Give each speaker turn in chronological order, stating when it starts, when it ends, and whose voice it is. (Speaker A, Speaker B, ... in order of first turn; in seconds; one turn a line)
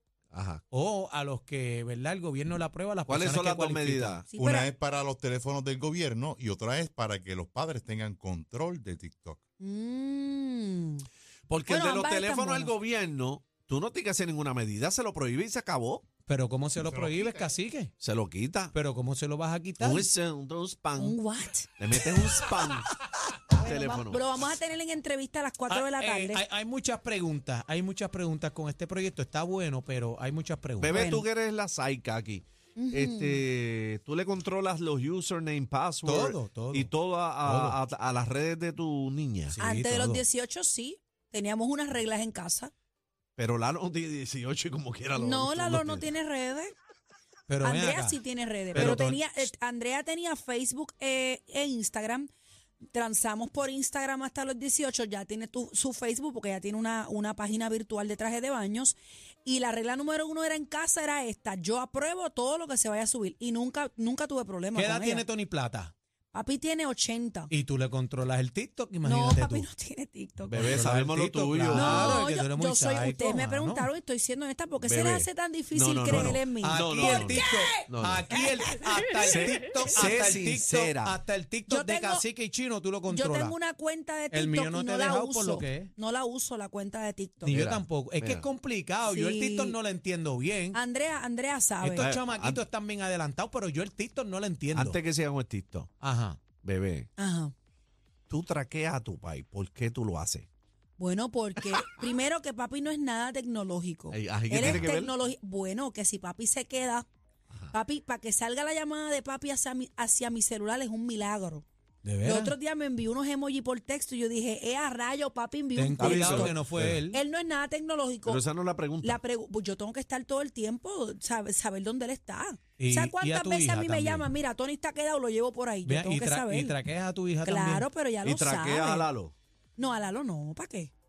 Speaker A: 0.3-0.6
Speaker B: 0.7-4.2
Speaker A: 3.1-4.3
Speaker C: 4.3-4.7
Speaker D: 4.4-9.4
Speaker C: 9.6-11.1
Speaker A: 11.5-16.0
Speaker C: 11.7-12.7
Speaker B: 16.3-17.9
Speaker D: 16.8-17.5
Speaker A: 18.0-18.7
Speaker B: 18.7-20.1
Speaker A: 19.8-21.1
Speaker C: 21.0-21.7
Speaker A: 21.8-22.9
Speaker B: 22.2-22.8
Speaker C: 23.5-26.4
Speaker A: 23.6-24.2
Speaker B: 25.7-31.2
Speaker A: 30.8-39.5
Speaker C: 30.9-31.2
Speaker C: 32.8-33.4
Speaker B: 36.0-37.8
Speaker B: 39.5-40.2
Speaker C: 39.6-42.7
Speaker A: 43.4-46.1
Speaker C: 45.1-46.7
Speaker B: 47.5-48.2
Speaker C: 47.6-52.3
Speaker B: 48.7-49.5
Speaker A: 48.7-49.0
Speaker C: 52.9-65.2
Speaker B: 64.7-65.9
Speaker C: 66.3-67.5
Speaker B: 67.5-69.7
Speaker C: 69.0-70.8
Speaker B: 70.5-73.9
Speaker A: 70.5-72.2
Speaker C: 71.7-77.7
Speaker A: 74.8-78.2
Speaker B: 76.1-83.5
Speaker C: 78.3-79.4
Speaker A: 79.3-81.2
Speaker C: 81.7-82.3
Speaker C: 83.1-87.6
Speaker B: 84.3-85.9
Speaker B: 87.4-90.8
Speaker A: 87.5-88.5
Speaker C: 89.1-89.8
Speaker C: 90.7-92.1
Speaker B: 91.8-95.0
Speaker A: 92.0-92.6
Speaker A: 94.7-95.9
Speaker B: 96.0-96.4
Speaker A: 96.6-97.1
Speaker C: 97.2-97.5
Speaker A: 98.3-100.5
Speaker C: 101.0-107.0
Speaker A: 104.1-105.1
Speaker B: 104.6-104.9
Speaker C: 107.7-111.6
Speaker B: 112.0-112.5
Speaker C: 112.2-116.6
Speaker B: 115.8-117.2
Speaker A: 116.0-117.0
Speaker C: 117.1-118.4
Speaker A: 118.2-119.2
Speaker C: 119.0-126.8
Speaker B: 122.8-124.2
Speaker B: 125.8-127.8
Speaker C: 127.4-129.1
Speaker A: 128.2-129.3
Speaker C: 129.8-130.9